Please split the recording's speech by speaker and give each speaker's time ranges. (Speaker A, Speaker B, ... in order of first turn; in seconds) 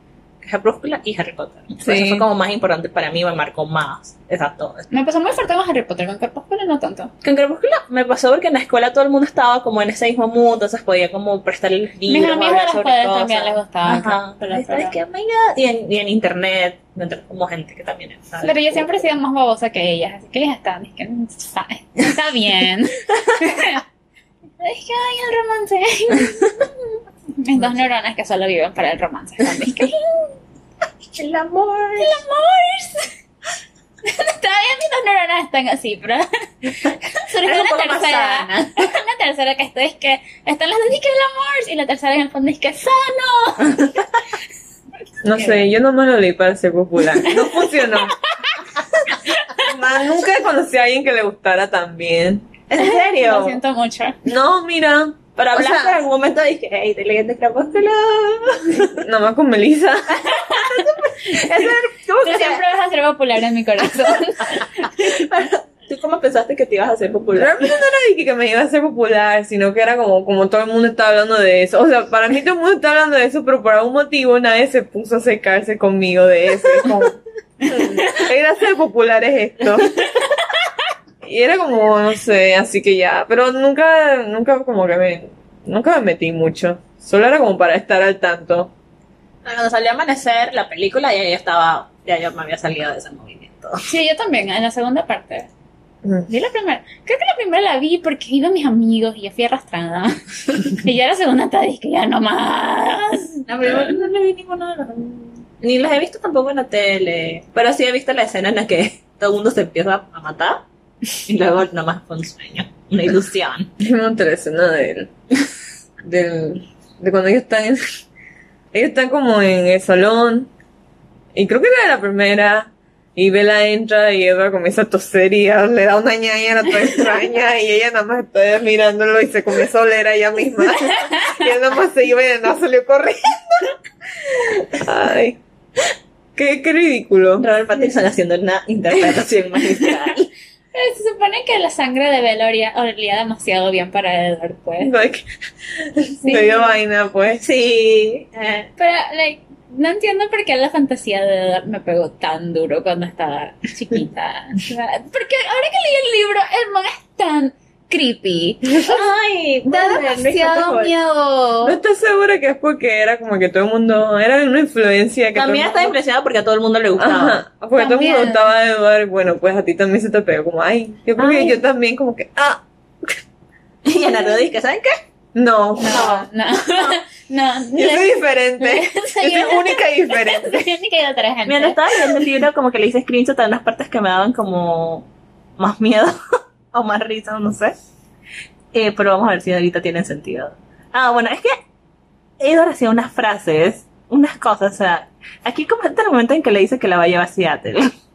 Speaker A: 0.4-4.9, 7.2-19.0, 31.1-32.2, 37.4-38.9, 43.7-44.0, 52.7-53.6, 55.4-59.0, 60.2-62.6, 64.2-67.7, 89.4-93.9, 103.5-110.6, 111.2-113.7, 137.4-140.3, 147.4-148.7, 158.8-160.9, 165.3-167.4, 173.9-175.0, 175.9-177.0, 181.5-185.1, 185.6-186.2, 186.7-187.7, 188.7-191.6, 192.4-197.9
Speaker B: 1.8-2.2, 45.2-48.1, 49.6-52.5, 54.2-56.0, 58.8-60.3, 67.3-80.0, 81.2-88.7, 113.8-115.1, 116.0-117.9, 118.7-120.5, 121.3-135.4, 136.3-137.4, 144.8-147.4, 161.6-165.9, 167.0-173.1, 175.3-176.1, 177.7-180.7
Speaker C: 4.9-7.1, 12.1-14.9, 18.4-23.8, 24.6-30.3, 32.0-33.1, 34.0-44.0, 45.3-45.6, 47.2-49.7, 52.8-54.2, 60.3-60.9, 61.4-61.6, 62.2-65.2, 93.9-95.5, 96.3-104.0, 140.7-144.9, 146.2-146.8, 148.8-159.0, 159.7-161.8, 167.7-168.5, 171.2-171.5, 175.8-182.2